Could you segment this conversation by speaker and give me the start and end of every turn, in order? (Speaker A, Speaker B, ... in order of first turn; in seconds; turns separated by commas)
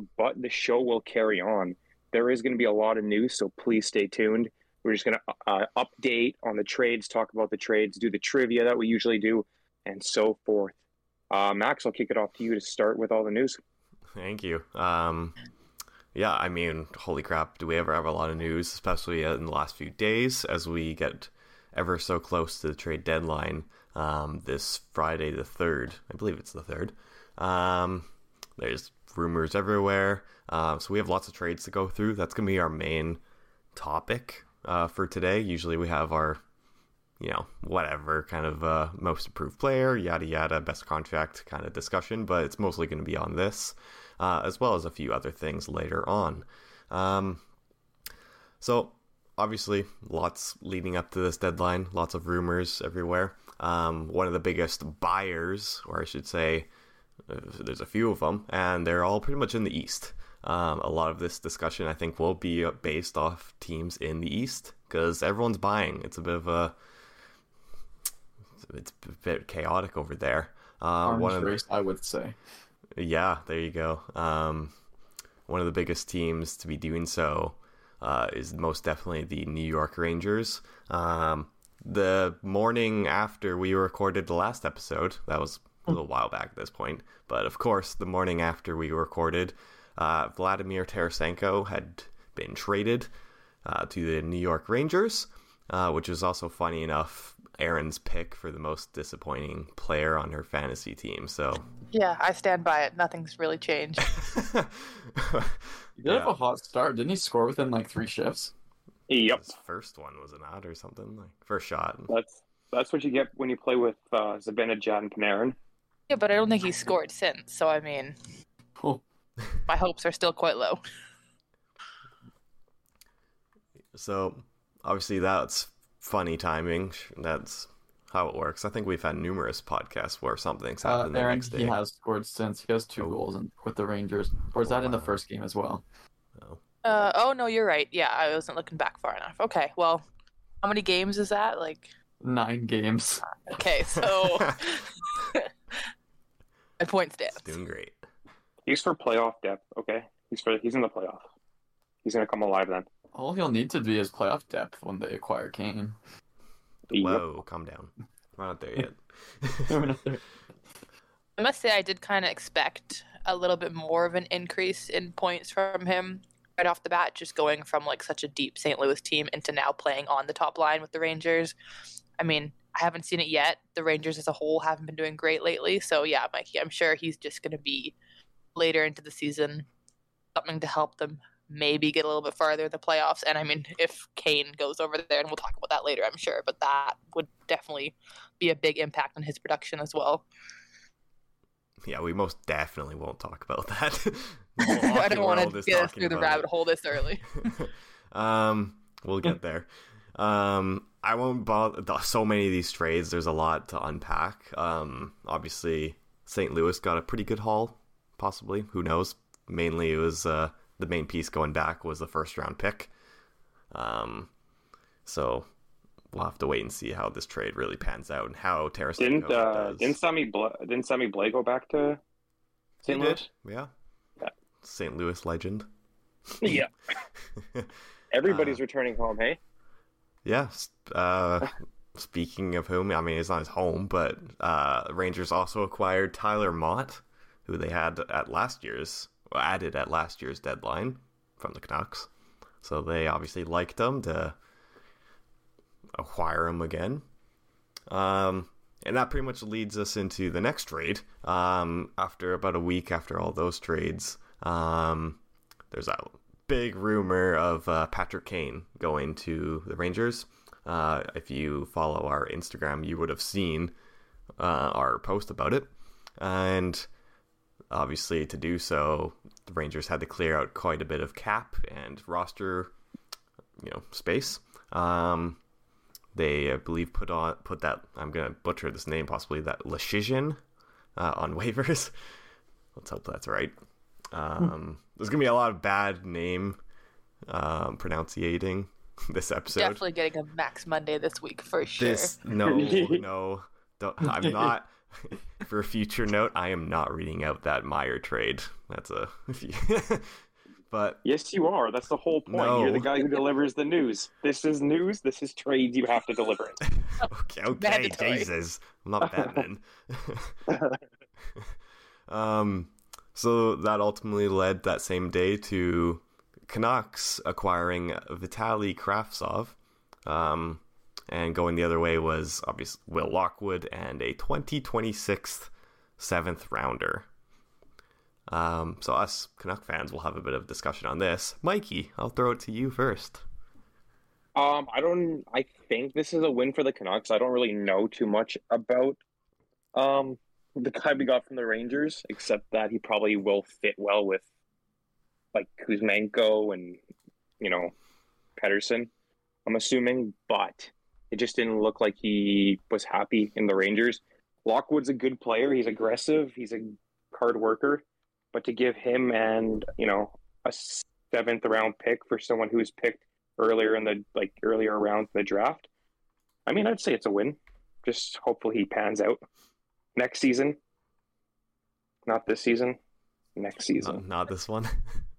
Speaker A: 0.1-10.8, Speaker A: 11.3-13.6, Speaker B: 14.2-15.4, Speaker B: 16.1-33.2, Speaker B: 33.8-36.4, Speaker B: 37.2-47.4, Speaker B: 48.6-56.7, Speaker B: 57.3-66.7, Speaker B: 68.6-71.6, Speaker C: 71.0-72.4, Speaker B: 73.0-74.7, Speaker B: 75.5-93.1, Speaker B: 93.7-101.7, Speaker D: 101.9-104.1, Speaker B: 104.0-106.3, Speaker C: 106.0-108.5, Speaker A: 109.1-109.4, Speaker B: 109.3-112.1, Speaker A: 112.1-115.6, Speaker D: 116.1-118.2, Speaker C: 118.8-119.0, Speaker D: 119.7-120.8, Speaker B: 123.9-131.8, Speaker C: 130.8-135.8, Speaker B: 134.6-135.2, Speaker B: 136.4-136.6, Speaker D: 136.8-140.1, Speaker D: 140.6-141.9, Speaker C: 142.2-143.2, Speaker D: 143.3-145.8, Speaker B: 144.0-144.8, Speaker D: 146.8-147.6, Speaker B: 147.3-148.0, Speaker A: 148.7-151.2, Speaker A: 152.0-152.9, Speaker C: 153.1-156.0, Speaker B: 156.9-160.0, Speaker A: 156.9-157.2, Speaker C: 159.7-160.2, Speaker D: 161.4-171.6, Speaker D: 172.2-177.9, Speaker D: 178.6-179.7, Speaker D: 180.3-190.2, Speaker B: 191.9-196.5, Speaker D: 194.6-197.5, Speaker B: 197.4-212.9, Speaker B: 213.7-214.3, Speaker B: 215.1-215.5, Speaker B: 216.1-219.9, Speaker A: 219.0-222.0, Speaker B: 222.8-223.7, Speaker A: 222.9-223.3, Speaker B: 224.6-225.7, Speaker A: 226.4-226.7, Speaker A: 228.1-229.4, Speaker B: 228.2-228.6, Speaker B: 230.2-242.1, Speaker B: 242.6-244.3, Speaker B: 246.0-247.0, Speaker B: 247.9-255.2, Speaker B: 255.7-263.7, Speaker B: 264.4-266.9, Speaker B: 267.7-272.7, Speaker B: 273.6-275.4, Speaker B: 276.1-280.4, Speaker B: 281.0-281.9, Speaker B: 282.8-283.6, Speaker B: 284.1-286.6, Speaker B: 287.3-289.8, Speaker D: 289.6-292.1, Speaker B: 291.8-301.0, Speaker A: 292.4-293.0, Speaker C: 294.1-294.5, Speaker A: 301.0-306.6, Speaker B: 302.3-302.9, Speaker B: 306.7-310.4, Speaker D: 307.0-308.3, Speaker A: 309.0-309.4, Speaker A: 310.5-310.8, Speaker B: 312.1-327.1, Speaker B: 328.3-333.2, Speaker A: 334.4-339.0, Speaker A: 339.7-344.2, Speaker A: 345.3-346.8, Speaker A: 347.4-347.7, Speaker A: 348.4-348.9, Speaker A: 349.5-365.7, Speaker A: 366.5-369.2, Speaker A: 369.9-370.6, Speaker A: 372.1-372.8, Speaker A: 373.4-374.0, Speaker B: 373.8-375.0